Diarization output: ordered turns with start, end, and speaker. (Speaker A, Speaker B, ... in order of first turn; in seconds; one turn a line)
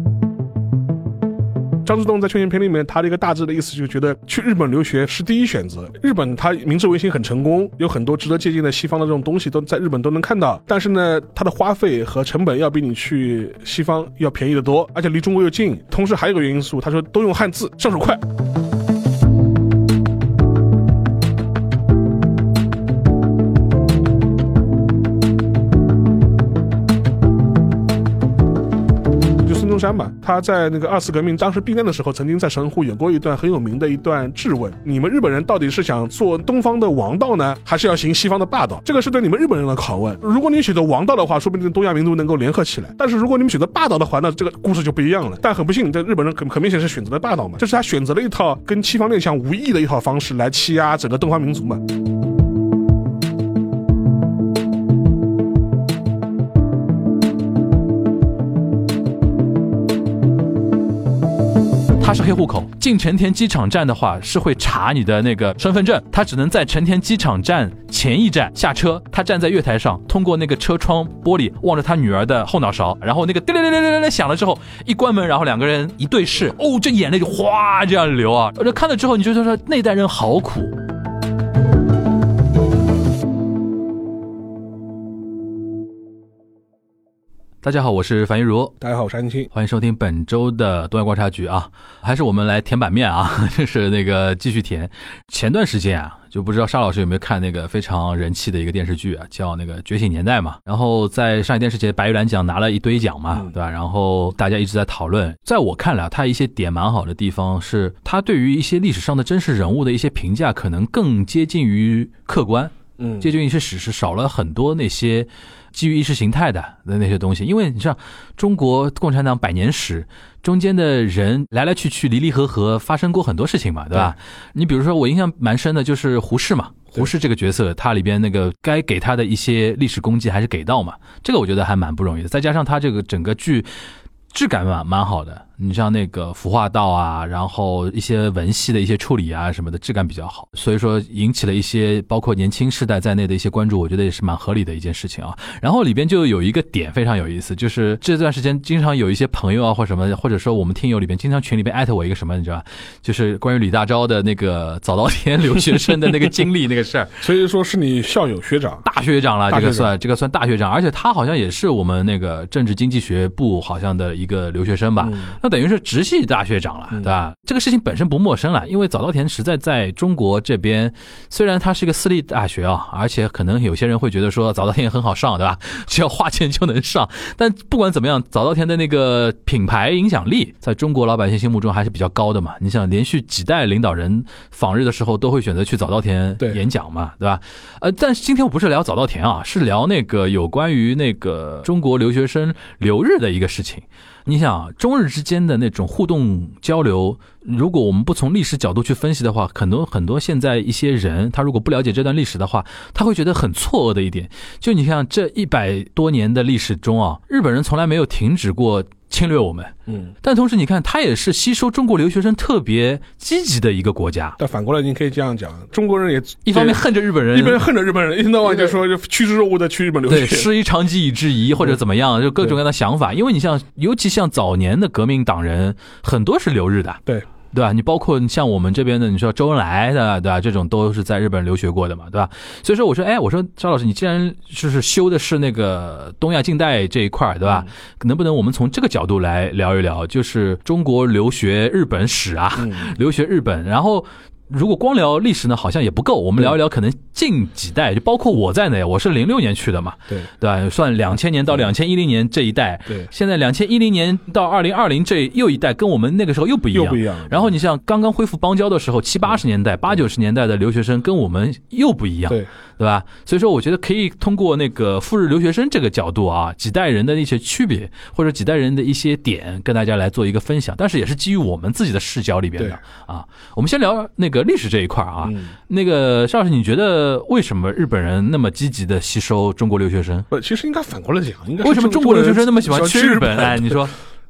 Speaker A: 1.8-18.2
Speaker A: 29.4-51.8
Speaker B: 62.0-80.8
Speaker B: 87.6-88.7
Speaker A: 88.8-89.5
Speaker B: 89.5-133.7
Speaker A: 113.0-113.3
Speaker B: 134.3-157.2
Speaker A: 157.2-158.8
Speaker B: 158.8-214.4
Speaker A: 159.5-159.9
Speaker A: 165.0-165.3
Speaker A: 209.9-210.1
Speaker A: 214.4-220.5
Speaker B: 216.4-217.6
Speaker B: 220.1-227.0
Speaker B: 227.5-280.3
Speaker A: 242.6-242.9
Speaker A: 256.7-257.5
Speaker A: 275.2-275.5
Speaker A: 280.3-283.8
Speaker B: 281.6-283.9